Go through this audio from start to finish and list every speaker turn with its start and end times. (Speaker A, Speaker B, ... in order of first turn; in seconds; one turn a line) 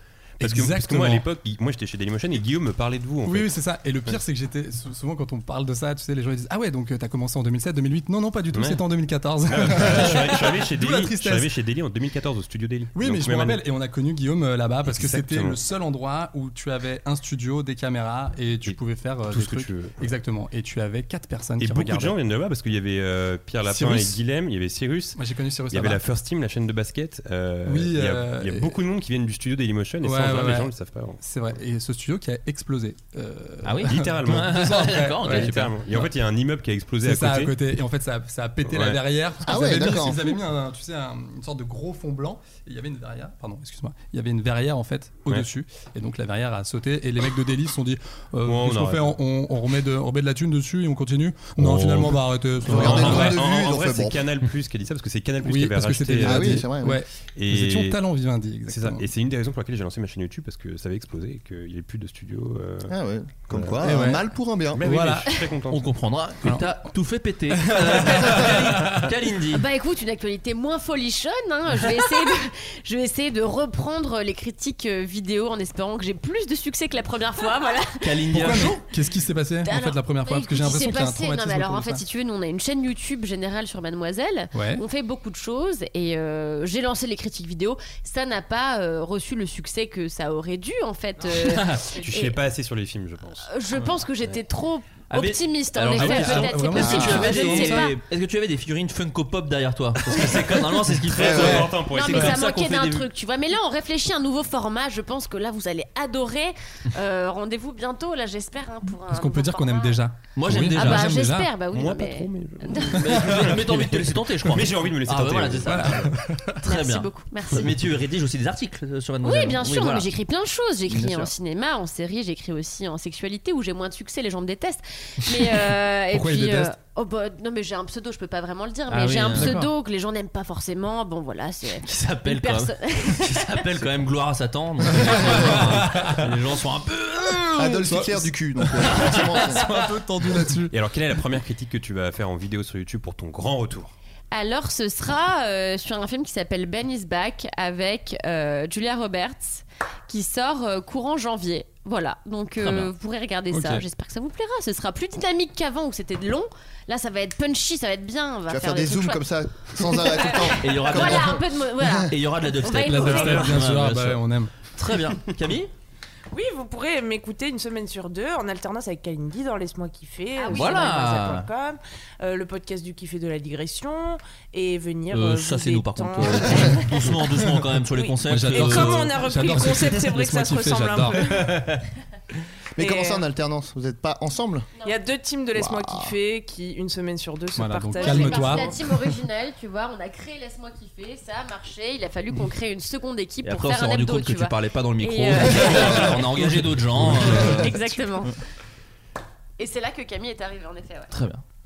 Speaker A: 0.4-1.3
Speaker B: 0.4-3.5
Speaker A: 3.2-11.5
Speaker B: 8.5-8.8
Speaker B: 9.5-13.6
Speaker A: 12.9-22.2
Speaker B: 14.8-15.6
Speaker B: 18.6-20.1
Speaker B: 21.6-31.2
Speaker A: 23.6-24.2
Speaker A: 25.1-26.0
Speaker A: 27.6-28.8
Speaker A: 30.0-36.1
Speaker C: 33.6-35.7
Speaker B: 33.8-37.5
Speaker A: 37.0-53.5
Speaker B: 38.6-39.0
Speaker D: 39.4-40.3
Speaker B: 39.7-40.0
Speaker B: 48.4-49.2
Speaker B: 51.6-56.7
Speaker D: 52.6-54.2
Speaker A: 55.4-59.1
Speaker D: 56.2-57.0
Speaker B: 57.3-58.0
Speaker B: 58.7-62.9
Speaker D: 62.9-64.9
Speaker B: 63.5-63.8
Speaker A: 63.8-64.2
Speaker B: 64.7-65.9
Speaker A: 64.8-65.4
Speaker C: 65.7-69.6
Speaker A: 67.6-69.1
Speaker E: 69.5-78.0
Speaker C: 78.0-78.8
Speaker A: 78.3-82.0
Speaker E: 79.6-92.4
Speaker A: 84.5-84.8
Speaker C: 91.3-91.8
Speaker B: 91.9-94.1
Speaker E: 93.4-97.9
Speaker C: 95.1-103.1
Speaker A: 95.9-97.9
Speaker D: 96.8-97.2
Speaker B: 101.0-102.4
Speaker D: 101.2-101.7
Speaker A: 101.3-101.6
Speaker E: 101.9-110.0
Speaker A: 109.1-111.5
Speaker C: 110.3-111.1
Speaker E: 110.7-113.0
Speaker B: 111.7-116.1
Speaker C: 112.8-116.1
Speaker A: 115.6-116.7
Speaker E: 116.6-117.7
Speaker C: 116.6-120.1
Speaker E: 119.2-133.6
Speaker C: 120.9-121.3
Speaker A: 126.1-126.7
Speaker C: 128.9-129.7
Speaker A: 129.3-129.7
Speaker C: 131.8-138.0
Speaker A: 134.9-136.3
Speaker D: 137.6-139.7
Speaker A: 137.8-138.2
Speaker C: 138.8-139.8
Speaker A: 139.4-140.7
Speaker B: 140.7-143.9
Speaker E: 144.3-159.2
Speaker C: 152.6-152.9
Speaker A: 153.5-153.8
Speaker D: 158.5-161.9
Speaker E: 160.3-163.5
Speaker C: 160.6-165.7
Speaker A: 162.8-164.5
Speaker F: 166.3-177.2
Speaker E: 170.3-170.9
Speaker C: 170.5-171.5
Speaker C: 175.1-179.2
Speaker F: 177.9-181.6
Speaker A: 178.2-181.5
Speaker B: 181.4-181.8
Speaker D: 182.8-184.7
Speaker F: 182.8-183.3
Speaker F: 184.8-188.8
Speaker D: 185.5-186.1
Speaker A: 187.5-188.8
Speaker E: 188.0-196.1
Speaker C: 193.4-198.3
Speaker A: 196.4-197.6
Speaker E: 197.3-198.3
Speaker E: 199.6-201.1
Speaker C: 201.1-201.4